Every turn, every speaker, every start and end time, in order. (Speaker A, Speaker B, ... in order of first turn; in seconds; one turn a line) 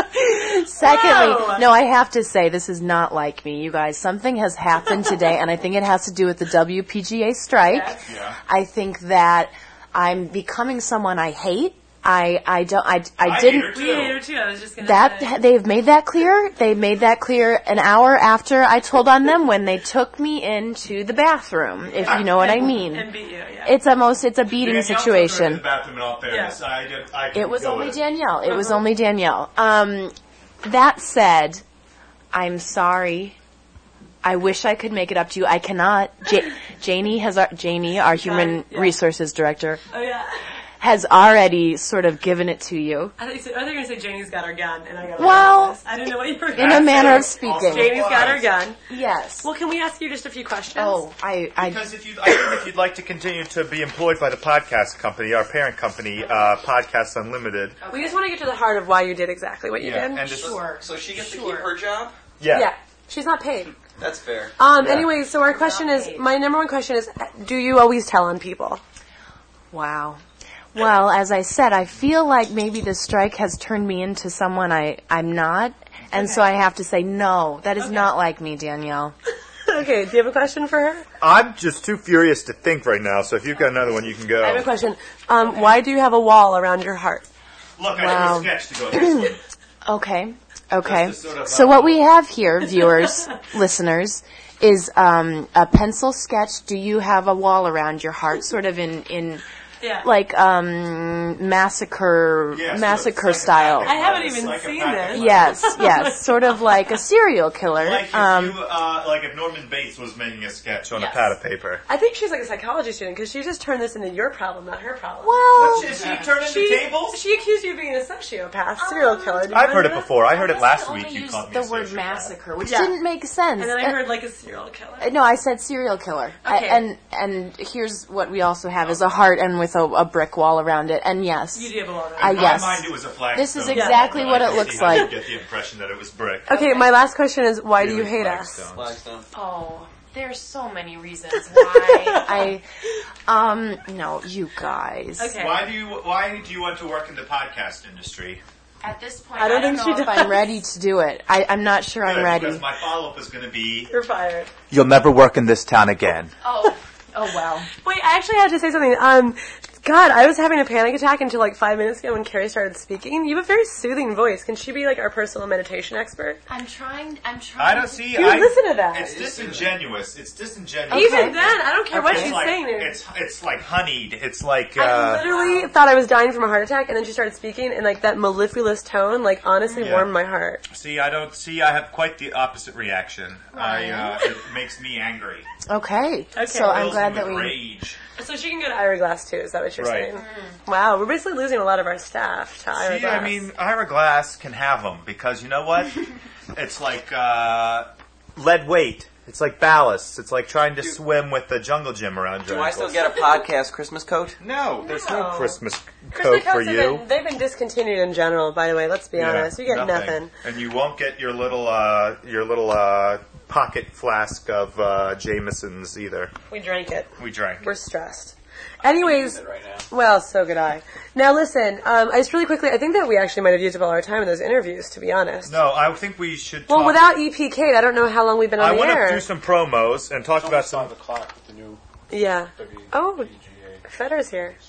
Speaker A: 0.2-13.8
Speaker B: 0.8-1.7
Speaker B: 7.7-8.0
Speaker C: 8.1-8.4
Speaker C: 13.2-14.2
Speaker B: 13.7-15.4
Speaker A: 14.8-23.1
Speaker B: 22.0-23.7
Speaker C: 22.0-22.5
Speaker A: 23.6-25.6
Speaker C: 24.6-28.0
Speaker B: 26.3-26.6
Speaker A: 27.3-31.6
Speaker A: 32.3-33.4
Speaker A: 34.2-39.8
Speaker B: 38.2-39.0
Speaker B: 39.9-40.4
Speaker A: 40.8-43.1
Speaker B: 43.2-48.8
Speaker A: 45.2-45.8
Speaker A: 46.5-47.9
Speaker C: 46.5-48.5
Speaker A: 48.9-49.5
Speaker B: 49.4-51.0
Speaker A: 50.7-51.9
Speaker C: 51.6-57.8
Speaker A: 57.8-58.2
Speaker B: 57.9-60.5
Speaker C: 59.8-60.5
Speaker A: 60.2-61.7
Speaker D: 60.4-62.1
Speaker C: 62.4-62.7
Speaker B: 62.5-63.7
Speaker D: 64.0-64.5
Speaker B: 64.6-68.8
Speaker C: 64.8-65.1
Speaker A: 65.5-66.2
Speaker A: 69.7-70.2
Speaker A: 70.7-79.1
Speaker B: 76.1-76.4
Speaker B: 79.7-81.0
Speaker C: 81.2-84.7
Speaker B: 84.3-87.3
Speaker C: 87.8-89.4
Speaker A: 87.9-89.3
Speaker A: 89.8-99.4
Speaker C: 90.8-92.0
Speaker B: 99.8-100.1
Speaker A: 100.0-104.0
Speaker C: 102.5-105.7
Speaker B: 103.8-106.6
Speaker A: 105.1-108.6
Speaker C: 107.8-111.8
Speaker A: 110.9-111.3
Speaker B: 111.9-120.0
Speaker A: 115.2-116.1
Speaker C: 115.5-117.2
Speaker A: 118.8-124.0
Speaker C: 119.5-122.3
Speaker B: 122.6-123.0
Speaker B: 123.6-125.1
Speaker A: 125.0-135.1
Speaker B: 126.4-126.8
Speaker C: 128.8-129.1
Speaker B: 131.5-132.6
Speaker C: 132.2-136.5
Speaker B: 133.7-134.1
Speaker B: 136.5-138.6
Speaker A: 136.5-136.9
Speaker C: 137.8-138.9
Speaker D: 138.7-139.2
Speaker A: 139.3-142.6
Speaker A: 143.3-145.3
Speaker B: 145.2-145.7
Speaker C: 145.3-148.4
Speaker A: 148.8-152.7
Speaker B: 149.4-150.4
Speaker C: 152.0-153.9
Speaker B: 153.9-154.5
Speaker C: 154.7-156.3
Speaker A: 156.4-157.7
Speaker B: 157.8-166.4
Speaker A: 166.5-168.2
Speaker C: 167.6-175.2
Speaker B: 168.1-169.2
Speaker D: 169.0-169.7
Speaker A: 170.9-171.4
Speaker B: 170.9-173.0
Speaker A: 171.9-172.4
Speaker B: 174.8-180.6
Speaker A: 175.1-175.7
Speaker C: 179.8-180.1
Speaker C: 180.7-185.5
Speaker A: 183.5-184.3
Speaker A: 185.7-187.6
Speaker B: 186.3-186.9
Speaker C: 186.7-188.0
Speaker B: 188.2-193.5
Speaker C: 189.8-190.1
Speaker A: 190.2-190.6
Speaker C: 192.8-196.0
Speaker C: 196.5-203.0
Speaker D: 202.4-204.4
Speaker C: 204.4-207.0
Speaker B: 204.8-205.6
Speaker B: 206.1-210.3
Speaker C: 209.1-216.3
Speaker B: 216.5-219.4
Speaker C: 217.2-217.7
Speaker D: 218.8-219.8
Speaker B: 219.9-225.6
Speaker C: 225.4-227.0
Speaker B: 226.7-229.2
Speaker C: 228.6-230.9
Speaker E: 230.3-231.8
Speaker B: 232.1-233.3
Speaker E: 232.6-233.8
Speaker B: 233.8-234.5